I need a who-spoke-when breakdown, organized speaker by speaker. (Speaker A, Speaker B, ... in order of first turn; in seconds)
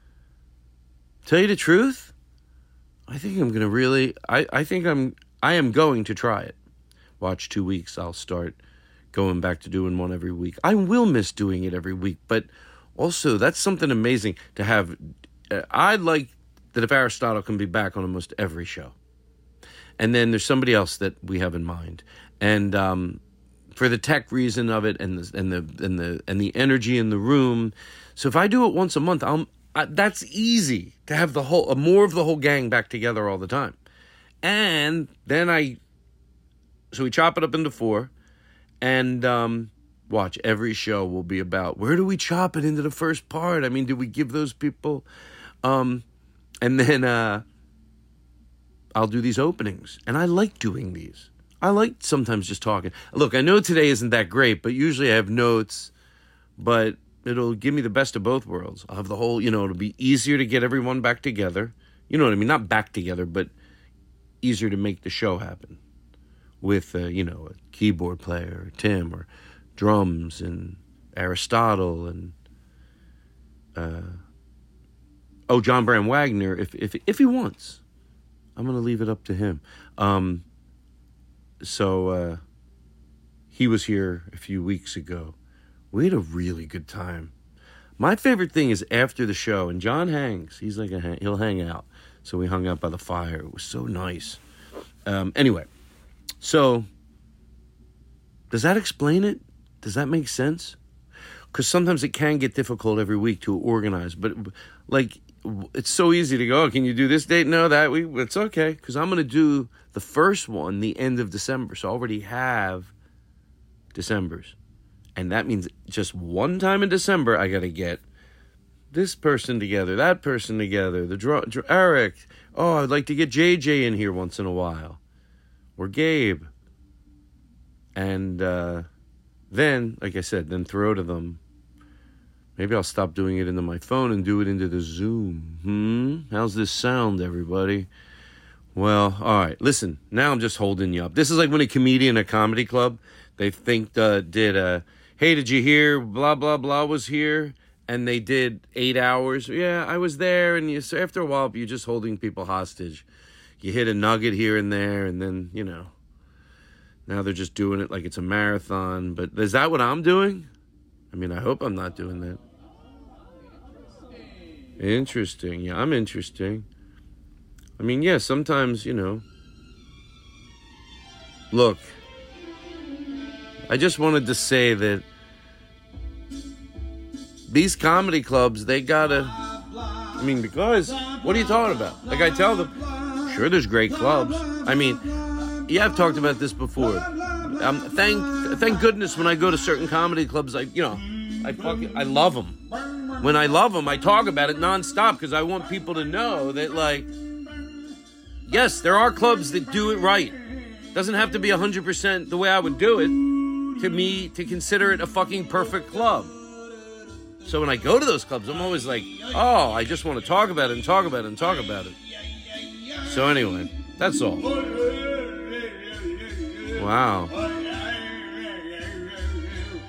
Speaker A: 1.2-2.1, 3.1-6.6, 7.2-8.6, 9.1-15.0, 15.5-18.9, 20.0-23.2, 23.7-33.8, 34.4-35.8, 36.9-38.1, 38.8-45.1, 45.6-46.0, 46.6-47.4, 49.0-55.9, 56.6-63.5, 64.4-65.8, 66.6-72.3, 73.8-74.2, 75.5-77.8, 78.6-80.4, 81.6-82.4, 83.5-85.4, 85.9-87.3, 88.0-94.4, 95.1-95.7, 96.4-96.9, 98.5-100.8, 101.5-112.9, 113.9-114.6, 115.2-118.0, 118.9-125.0, 125.8-126.5, 128.0-128.9, 129.5-131.4, 132.6-137.9, 138.8-153.1, 153.6-155.9, 157.1-160.5, 161.1-162.4, 164.8-166.7, 167.8-169.2, 171.5-171.8, 173.7-175.1, 177.5-179.4, 180.1-185.0, 185.7-192.6, 193.2-197.1, 198.5-206.3, 207.4-212.0, 213.0-214.5, 216.7-217.4